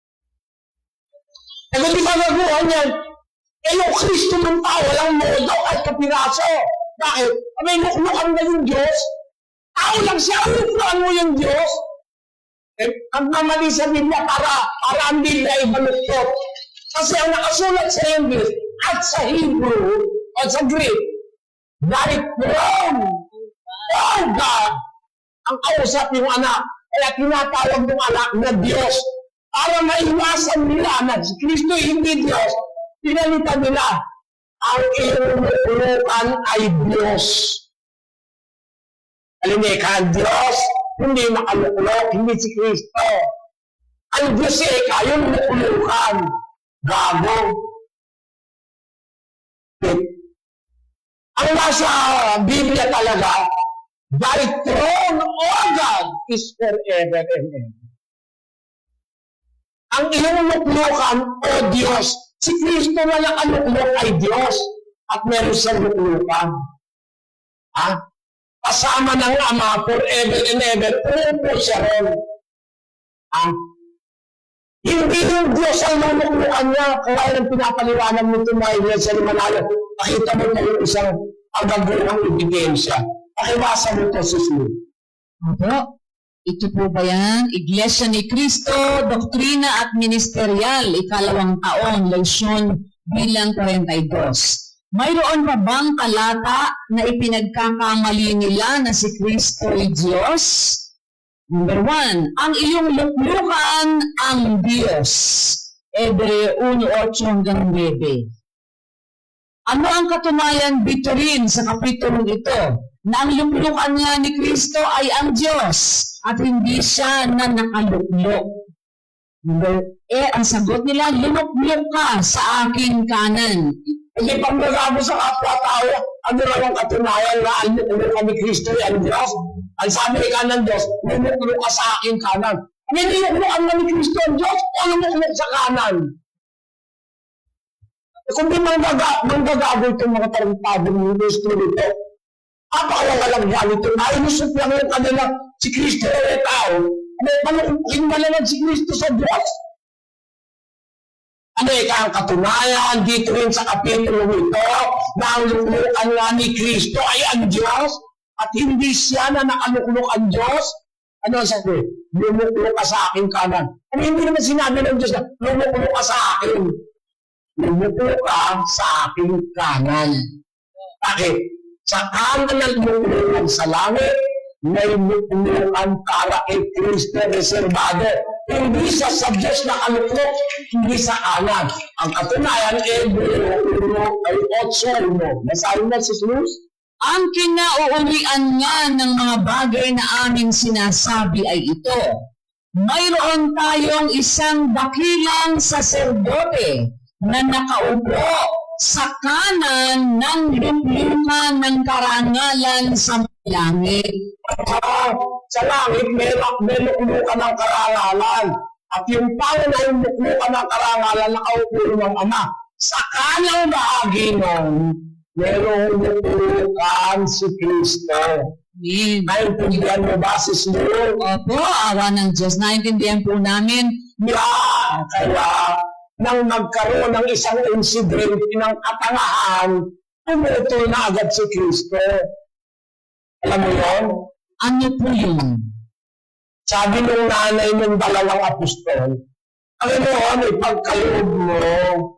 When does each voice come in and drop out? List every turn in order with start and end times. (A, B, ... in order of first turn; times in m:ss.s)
0:01.7-0:02.9 A
0:03.6-0:09.0 A
0:09.8-0:11.8 A
0:12.8-0:16.3 A
0:16.9-0:21.0 A
0:21.8-0:23.2 A
0:23.9-0:24.7 A
0:25.4-0:29.0 A
0:29.5-0:33.9 A
0:34.6-0:37.6 A
0:39.4-0:43.2 A
0:44.1-0:46.2 A
0:46.8-0:47.5 A
0:49.8-0:50.1 A
0:51.4-0:53.4 A
0:54.2-0:57.8 A
0:59.9-1:06.5 A
1:08.6-1:12.1 A
1:14.8-1:24.7 A
1:25.5-1:25.8 B
1:26.5-1:40.8 B
1:41.5-1:48.2 B
1:49.7-1:58.4 B
1:59.5-2:03.6 B
2:04.2-2:16.0 A
2:18.3-2:21.9 A
2:22.7-2:29.6 A
2:31.6-2:46.7 A
2:47.6-2:50.2 A
2:51.0-2:51.4 A
2:51.9-2:54.1 A
2:54.7-3:06.6 A
3:07.1-3:12.0 B
3:12.8-3:16.7 B
3:17.3-3:24.0 B
3:24.5-3:38.4 A
3:38.8-3:39.3 B
3:39.3-3:41.1 A
3:41.2-3:43.9 B
3:44.2-3:52.2 A
3:53.4-3:54.1 A
3:54.6-3:55.5 B
3:56.7-3:59.2 A
3:59.8-4:02.0 A